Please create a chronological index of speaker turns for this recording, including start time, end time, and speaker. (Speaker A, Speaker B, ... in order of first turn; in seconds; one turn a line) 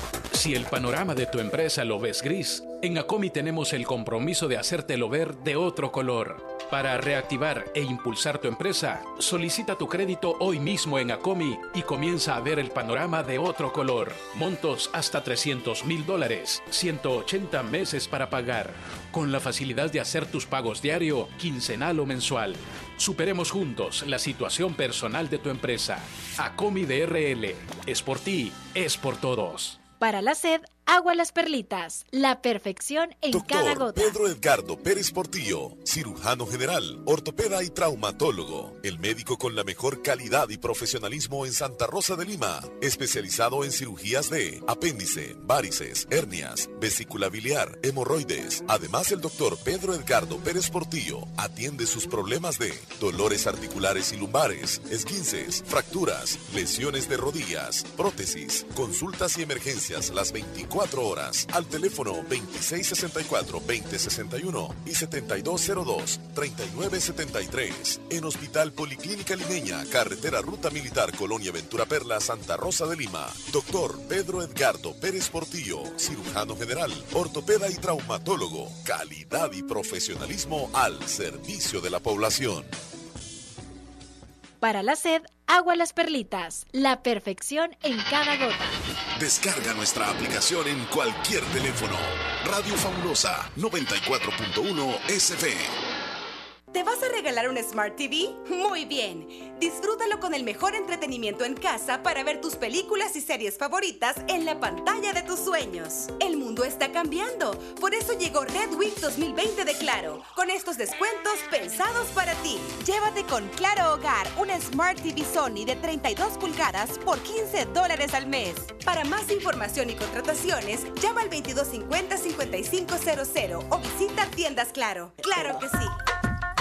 Speaker A: 0.3-29.8
Speaker B: 29.9-34.2
Speaker C: 33.3-82.7
Speaker B: 84.6-88.7
Speaker C: 89.2-95.8
Speaker D: 96.7-126.0